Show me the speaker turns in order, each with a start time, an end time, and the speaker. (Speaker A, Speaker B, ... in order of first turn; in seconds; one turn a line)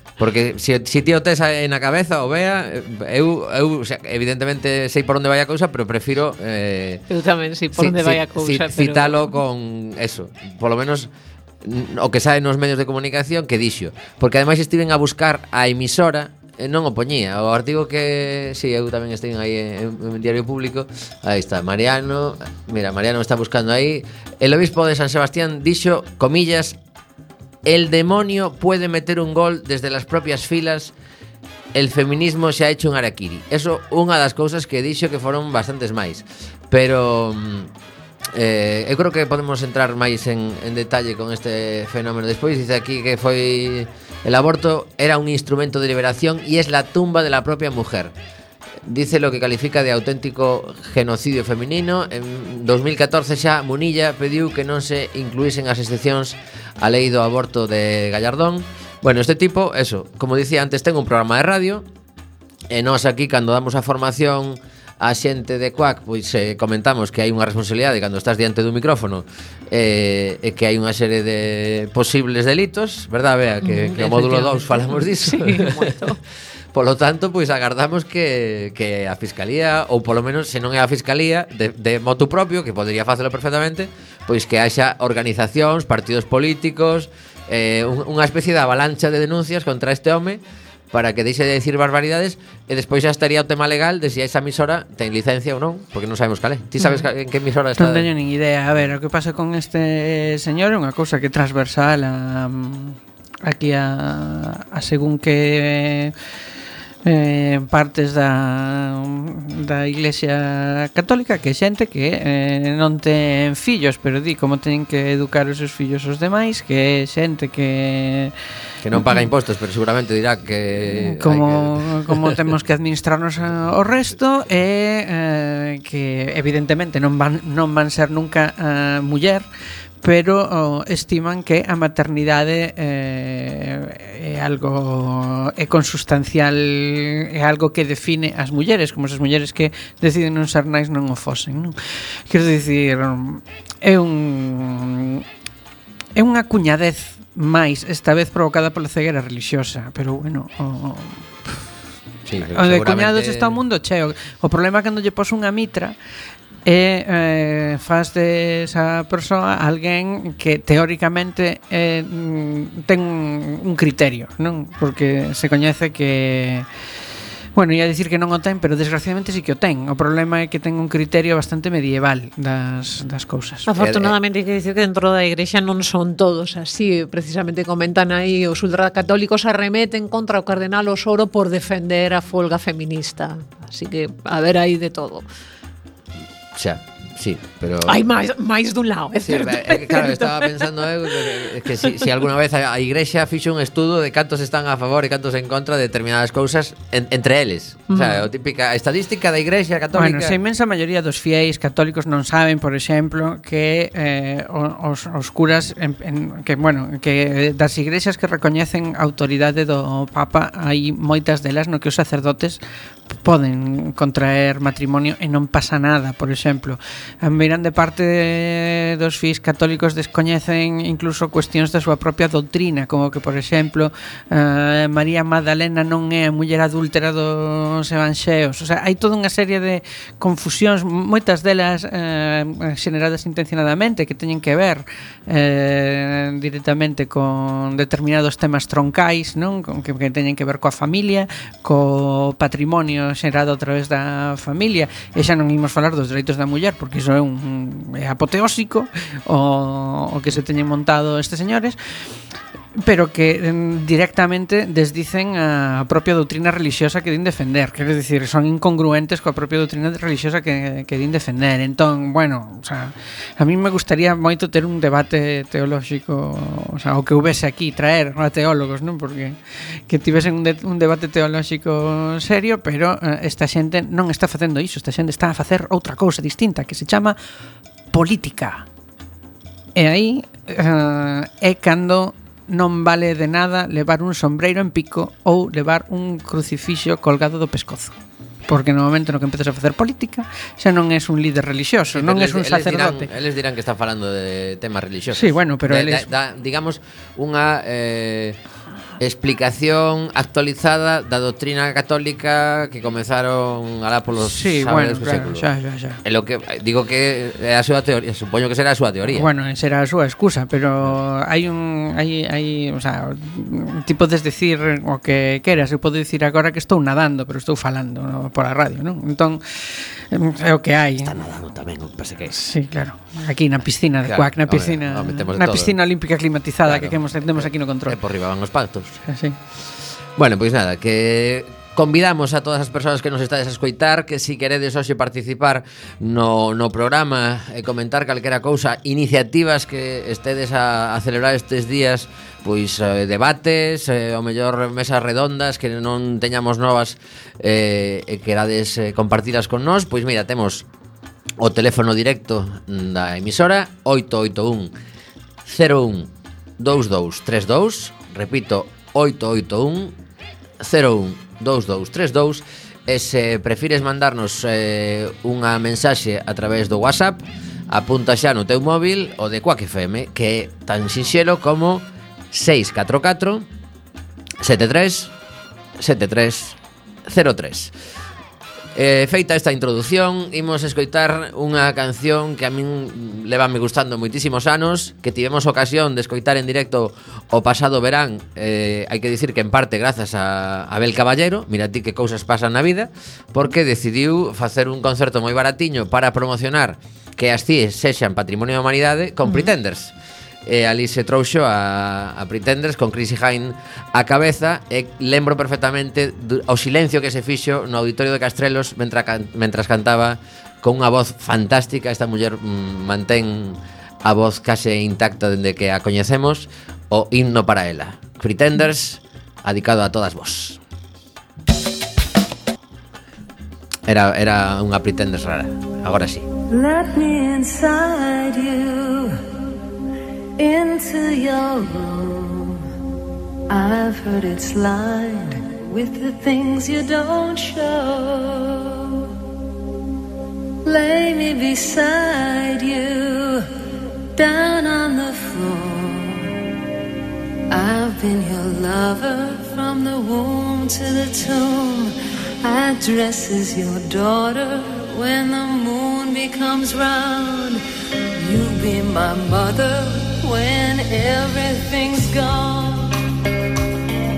Speaker A: 0.2-7.0
Speaker B: 7.1-9.2
Speaker A: 7.8-11.1
Speaker A: 11.6-26.8
Speaker A: 27.6-30.9
Speaker A: 31.7-37.7
Speaker A: 38.3-48.1
Speaker A: 48.9-61.9
Speaker A: 62.7-76.1
Speaker B: 73.6-76.2
Speaker A: 76.7-98.1
Speaker C: 97.8-106.1
Speaker C: 107.0-109.1
Speaker C: 109.7-118.3
Speaker A: 118.8-122.5
Speaker C: 121.1-129.4
Speaker C: 130.0-141.8
Speaker C: 142.3-145.2
Speaker C: 146.2-151.3
Speaker A: 152.3-153.6
Speaker C: 152.4-155.9
Speaker C: 156.7-166.7
Speaker C: 167.6-173.6
Speaker B: 173.7-185.2
Speaker A: 173.8-174.1
Speaker A: 186.5-188.0
Speaker B: 187.9-191.9
Speaker A: 189.2-200.4
Speaker B: 197.9-198.2
Speaker C: 199.9-212.6
Speaker C: 213.2-251.8
Speaker C: 252.8-277.2
Speaker C: 277.9-278.7
Speaker C: 279.8-287.9
Speaker C: 288.5-293.0
Speaker A: 291.9-298.4
Speaker C: 295.2-296.0
Speaker A: 299.0-305.5
Speaker C: 304.3-306.0
Speaker A: 306.0-309.3
Speaker C: 309.2-321.2
Speaker A: 321.0-322.4
Speaker C: 322.4-328.0
Speaker A: 324.0-325.8
Speaker A: 326.6-329.0
Speaker A: 330.2-350.7
Speaker A: 351.4-354.7
Speaker A: 355.4-360.0
Speaker A: 360.6-373.5
Speaker A: 374.4-375.1
Speaker A: 375.8-377.7
Speaker A: 378.8-399.9
Speaker A: 400.5-420.6
Speaker A: 423.9-426.3
Speaker D: 426.5-429.2
Speaker D: 430.4-432.7
Speaker D: 433.5-439.1
Speaker D: 440.6-443.5
Speaker D: 444.2-446.4
Speaker D: 447.5-457.6
Speaker D: 458.2-463.0